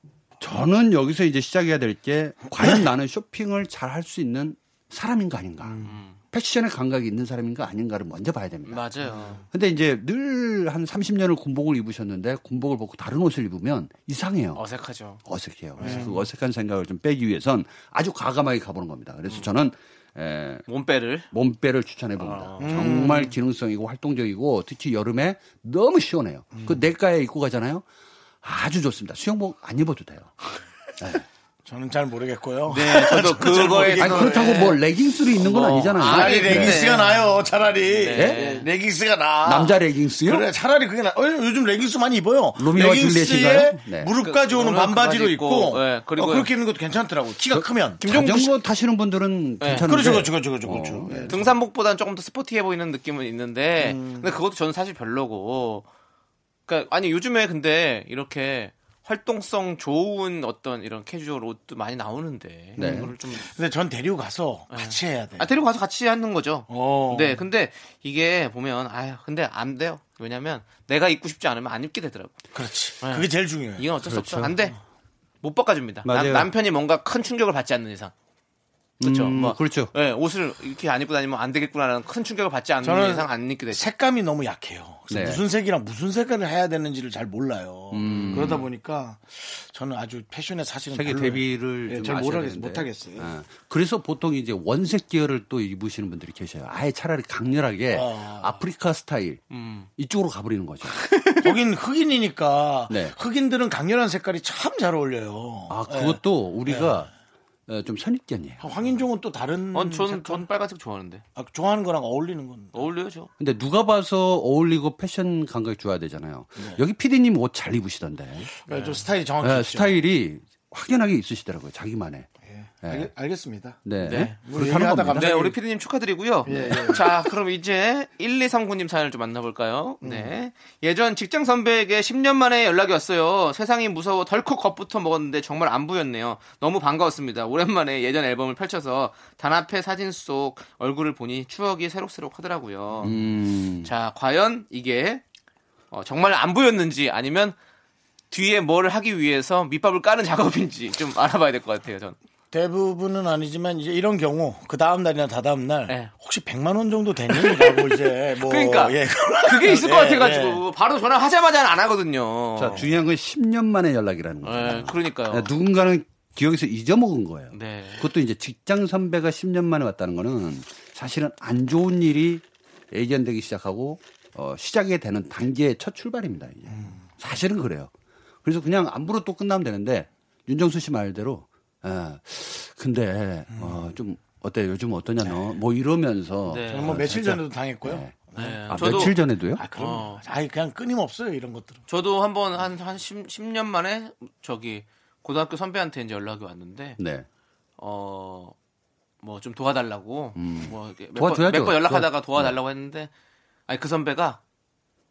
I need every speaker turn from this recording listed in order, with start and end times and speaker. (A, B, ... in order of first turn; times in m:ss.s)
0:00.4-0:08.8 A
0:05.6-0:05.9 B
0:05.8-0:06.2 C
0:08.7-0:09.4 C
0:09.5-0:14.6 A
0:14.6-0:15.2 C
0:15.2-0:20.6 A
0:15.8-0:16.2 B
0:15.8-0:16.2 C
0:20.7-0:21.3 C
0:21.3-0:27.8 A
0:22.2-0:23.3 C
0:22.6-0:23.3 B
0:28.4-0:30.3 A
0:31.0-0:31.2 A
0:31.7-0:34.7 B
0:32.7-0:34.8 C
0:34.0-0:37.0 A
0:35.4-0:37.2 C
0:36.0-0:48.4 B
0:38.0-0:38.6 C
0:38.1-0:38.6 A
0:39.4-0:40.5 A
0:42.6-0:44.1 A
0:44.2-0:46.5 C
0:47.5-0:51.4 A
0:48.0-0:48.5 C
0:49.6-0:49.9 C
0:49.8-0:51.5 B
0:51.3-0:55.9 C
0:53.8-0:54.3 B
0:56.7-1:03.4 C
1:02.8-1:03.2 A
1:03.4-1:05.5 B
1:04.7-1:12.4 C
1:06.7-1:07.4 B
1:12.5-1:13.9 B
1:13.0-1:14.8 C
1:14.0-1:14.6 A
1:15.4-1:18.1 C
1:16.0-1:16.5 A
1:19.0-1:19.9 A
1:19.0-1:23.9 C
1:22.8-1:33.3 B
1:25.1-1:25.4 A
1:27.9-1:28.7 A
1:28.1-1:28.6 C
1:30.9-1:39.4 A
1:37.9-1:38.6 B
1:39.5-1:39.9 C
1:40.0-1:41.1 A
1:41.0-1:41.5 C
1:41.4-1:47.0 B
1:42.9-1:43.2 A
1:45.7-1:47.1 A
1:47.7-1:48.7 A
1:48.6-1:50.5 B
1:49.7-1:51.2 C
1:51.4-1:52.9 B
1:52.7-1:53.3 C
1:53.4-1:58.5 A
1:58.6-2:00.0 B
1:58.7-1:59.0 C
1:59.4-2:02.3 A
2:02.5-2:03.8 B
2:02.8-2:03.1 A
2:03.8-2:05.4 A
2:04.0-2:04.4 C
2:04.4-2:05.6 B
2:05.2-2:23.2 C
2:06.5-2:07.0 B
2:06.6-2:06.8 A
2:10.0-2:10.4 B
2:23.0-2:23.9 A
2:23.8-2:25.2 C
2:25.9-2:27.6 C
2:28.3-2:32.2 C
2:32.5-2:40.6 B
2:37.3-2:37.8 C
2:38.3-2:42.9 C
2:42.6-2:57.9 A
2:44.4-2:45.5 C
2:47.5-2:48.1 C
2:56.7-2:57.0 B
2:58.4-3:09.6 A
3:06.5-3:07.1 C
3:06.7-3:11.8 B
3:08.4-3:09.2 C
3:09.8-3:10.2 C
3:11.9-3:17.0 C
3:17.0-3:17.3 A
3:17.8-3:18.6 C
3:19.2-3:23.1 C
3:20.4-3:22.6 A
3:23.7-3:24.4 C